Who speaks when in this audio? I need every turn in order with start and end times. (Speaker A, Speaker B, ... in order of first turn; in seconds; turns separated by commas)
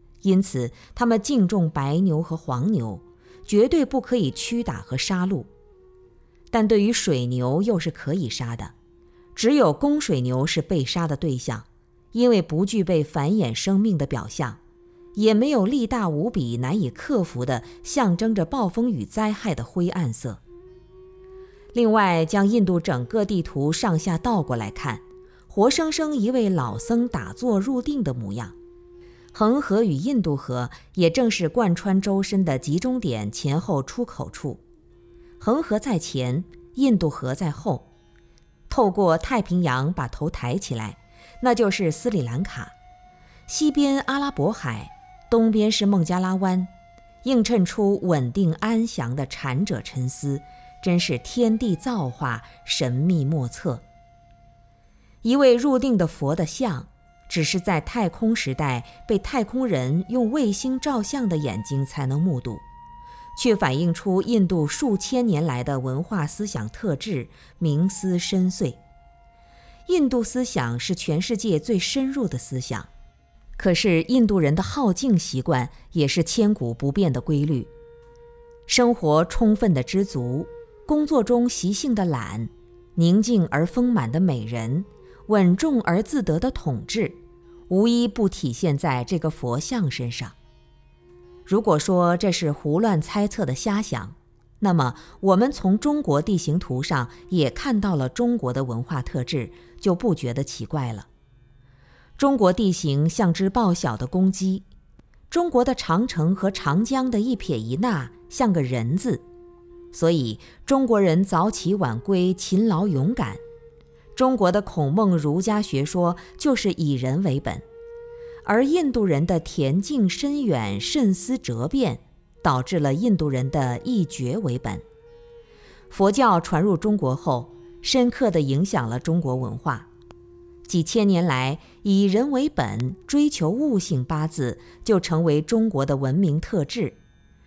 Speaker A: 0.2-5.5, Speaker A: 6.5-8.7, Speaker A: 9.3-14.6, Speaker A: 15.2-20.4, Speaker A: 21.7-28.6, Speaker A: 29.3-34.6, Speaker A: 35.4-37.9, Speaker A: 38.7-42.7, Speaker A: 43.5-46.7, Speaker A: 47.2-53.8, Speaker A: 55.2-62.6, Speaker A: 63.4-68.8, Speaker A: 69.9-72.9, Speaker A: 73.6-77.7, Speaker A: 78.7-87.2, Speaker A: 87.7-90.3, Speaker A: 91.5-101.1, Speaker A: 102.2-104.7, Speaker A: 105.3-109.2, Speaker A: 109.9-113.4, Speaker A: 114.2-117.7, Speaker A: 118.5-124.8, Speaker A: 125.9-129.9, Speaker A: 130.7-137.0